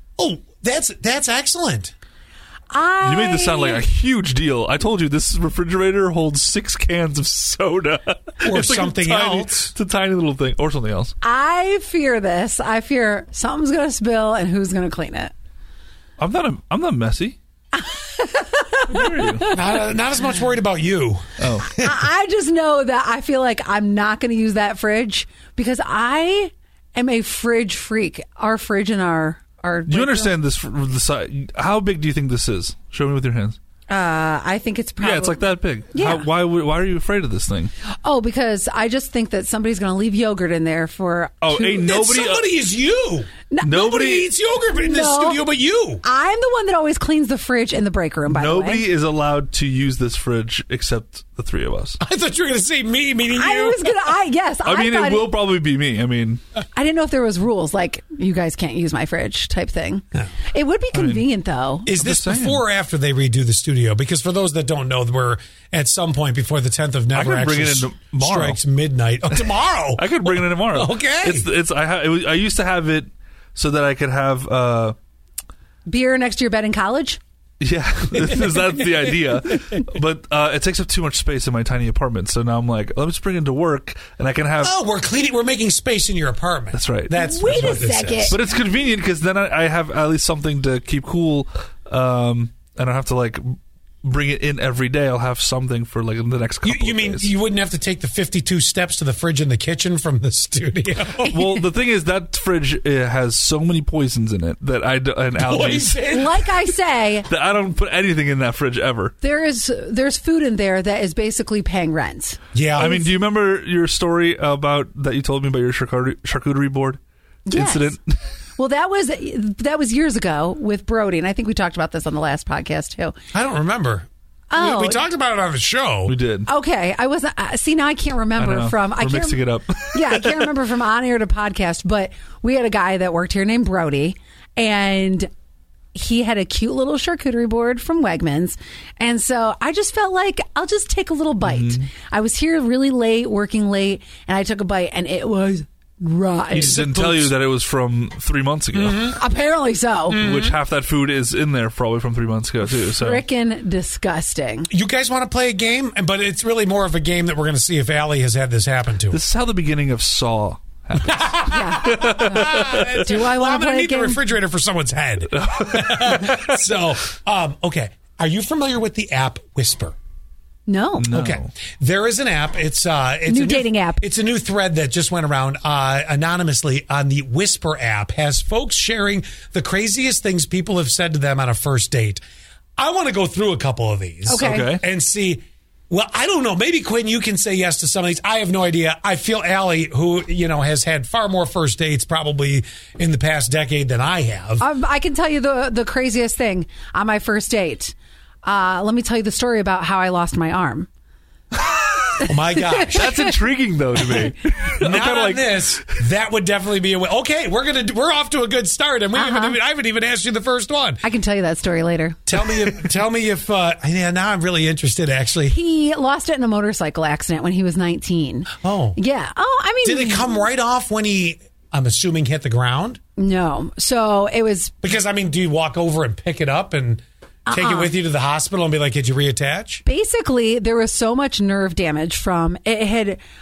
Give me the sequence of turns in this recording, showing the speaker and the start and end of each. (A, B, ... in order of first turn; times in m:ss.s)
0:00.2-0:01.9 A
0:02.7-0:03.9 B
0:03.0-0:11.1 C
0:08.4-0:09.7 A
0:11.2-0:15.3 B
0:16.2-0:17.4 C
0:17.7-0:19.6 B
0:18.9-0:19.5 C
0:19.5-0:21.9 A
0:21.4-0:21.7 C
0:21.7-0:30.4 B
0:29.9-0:33.6 C
0:33.9-0:36.3 B
0:35.0-0:37.7 C
0:38.0-0:42.0 B
0:41.4-0:42.5 C
0:41.8-0:46.0 A
0:43.5-0:44.1 B
0:43.6-0:44.3 C
0:44.7-0:45.4 B
0:46.0-0:48.9 B
0:48.3-0:52.0 C
0:52.0-0:54.0 A
0:53.3-0:55.4 B
0:54.6-0:56.4 C
0:56.8-1:01.9 B
1:00.9-1:01.3 C
1:01.9-1:11.5 A
1:01.9-1:02.6 C
1:07.1-1:08.6 C
1:10.0-1:15.0 C
1:15.9-1:17.2 B
1:17.6-1:24.8 C
1:24.6-1:28.4 A
1:26.7-1:27.7 C
1:27.1-1:28.4 B
1:28.3-1:37.3 C
1:36.6-1:41.7 A
1:41.2-1:46.0 C
1:45.4-1:46.5 A
1:46.1-1:47.3 B
1:47.3-1:49.1 C
1:49.2-1:53.1 B
1:52.5-1:53.0 A
1:52.8-1:57.0 C
1:57.5-1:58.0 B
1:57.5-1:58.1 C
1:58.6-2:03.2 B
2:03.3-2:06.1 A
2:04.5-2:05.0 B
2:06.1-2:06.5 C
2:06.5-2:15.3 B
2:08.4-2:10.5 C
2:15.9-2:26.8 B
2:21.4-2:21.8 C
2:26.5-2:29.2 C
2:26.6-2:27.3 A
2:28.7-2:29.2 A
2:29.2-2:30.2 B
2:30.1-2:30.6 A
2:30.2-2:33.2 C
2:32.8-2:34.7 B
2:34.7-2:39.2 A
2:39.1-2:43.2 C
2:41.1-2:50.0 A
2:41.5-2:44.2 B
2:45.4-2:46.6 C
2:50.7-2:51.1 B
2:51.0-2:51.5 C
2:51.1-3:02.2 A
2:53.3-2:54.0 B
3:02.8-3:14.6 A
3:04.3-3:04.8 B
3:04.4-3:04.8 C
3:14.6-3:20.9 B
3:22.2-3:23.4 B
3:22.2-3:23.1 A
3:22.9-3:25.8 C
3:24.8-3:31.0 A
3:29.1-3:29.6 B
3:31.0-3:32.2 B
3:32.3-3:35.6 A
3:35.5-3:40.4 B
3:38.6-3:39.0 A
3:39.8-3:43.0 A
3:43.2-3:44.8 B
3:44.8-3:49.8 A
3:47.5-3:48.0 B
3:49.8-3:53.2 B